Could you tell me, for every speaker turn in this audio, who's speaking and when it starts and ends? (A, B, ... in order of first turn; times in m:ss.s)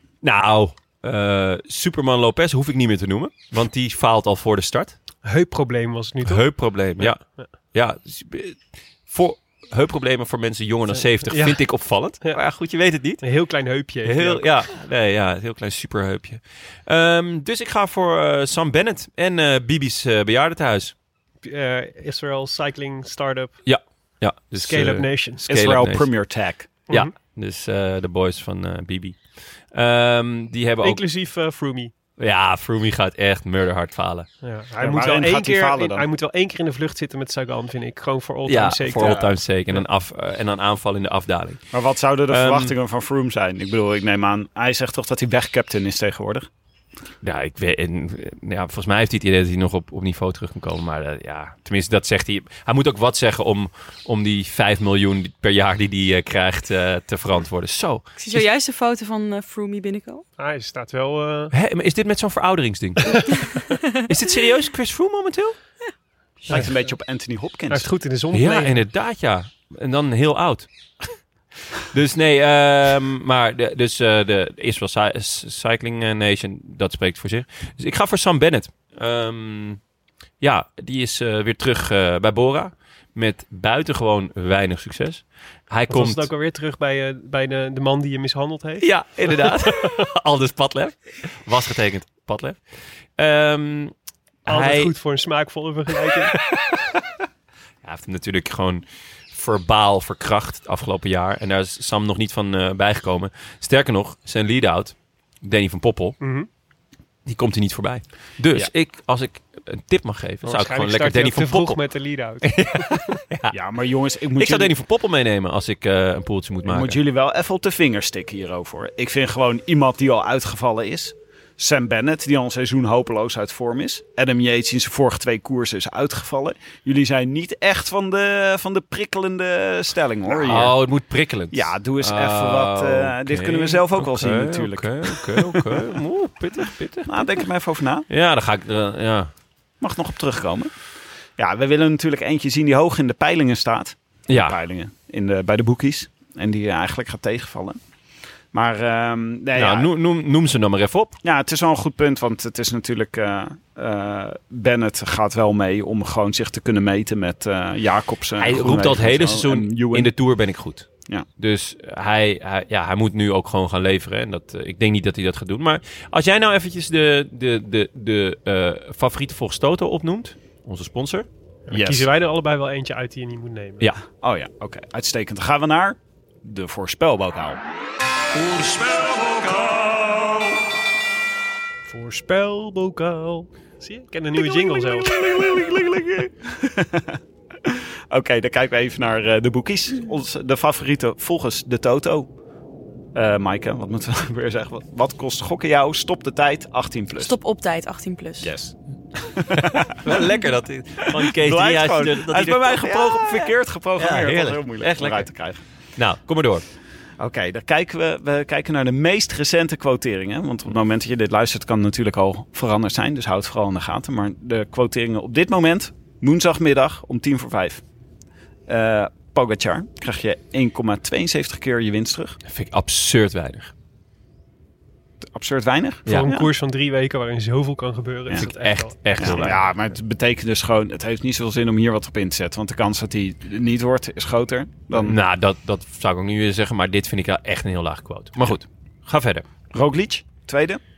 0:00.2-0:05.0 A
0:05.2-0:07.5 B
0:06.2-0:13.4 A
0:10.9-0:12.4 B
0:13.2-0:14.5 B
0:14.0-0:20.9 A
0:21.4-0:23.6 B
0:23.6-0:26.1 A
0:24.6-0:25.5 B
0:25.5-0:26.8 C
0:26.9-0:27.1 B
0:26.9-0:31.0 A
0:30.8-0:31.9 B
0:32.2-0:34.3 A
0:34.4-0:39.8 B
0:34.8-0:36.0 C
0:38.4-0:41.7 A
0:41.7-0:46.5 C
0:42.3-0:42.7 A
0:47.2-0:58.4 A
0:58.2-1:00.2 D
1:00.4-1:01.5 B
1:01.5-1:03.3 A
1:03.0-1:03.3 B
1:04.0-1:05.6 A
1:06.5-1:07.9 C
1:07.7-1:08.8 B
1:08.3-1:10.7 A
1:11.9-1:19.8 A
1:20.4-1:26.3 A
1:25.9-1:29.9 B
1:28.8-1:32.6 A
1:33.2-1:33.9 A
1:34.4-1:34.9 A
1:34.5-1:36.3 B
1:36.5-1:36.7 A
1:37.8-1:46.2 A
1:46.2-1:46.5 B
1:47.2-1:53.5 A
1:50.4-1:53.2 B
1:53.5-1:54.7 C
1:54.4-1:57.0 A
1:56.6-2:10.8 C
2:10.3-2:17.4 A
2:11.5-2:15.9 C
2:17.0-2:18.0 C
2:18.1-2:19.3 A
2:19.8-2:20.7 C
2:21.4-2:27.8 C
2:24.3-2:24.6 A
2:28.5-2:29.9 C
2:29.5-2:31.1 A
2:31.2-2:40.1 C
2:38.4-2:51.3 A
2:51.7-2:53.9 B
2:51.7-2:52.1 C
2:54.1-2:57.6 C
2:58.5-3:00.0 C
3:01.9-3:05.2 B
3:04.4-3:12.3 C
3:13.1-3:17.3 C
3:17.1-3:18.5 D
3:18.4-3:19.8 C
3:20.0-3:26.6 A
3:21.2-3:25.6 C
3:27.2-3:37.8 C
3:38.7-3:42.4 C
3:42.4-3:43.7 A
3:45.3-3:46.5 C
3:46.1-3:49.6 B
3:48.4-3:49.6 A
3:49.2-3:55.2 C
3:54.9-3:59.4 A
3:59.7-4:00.8 C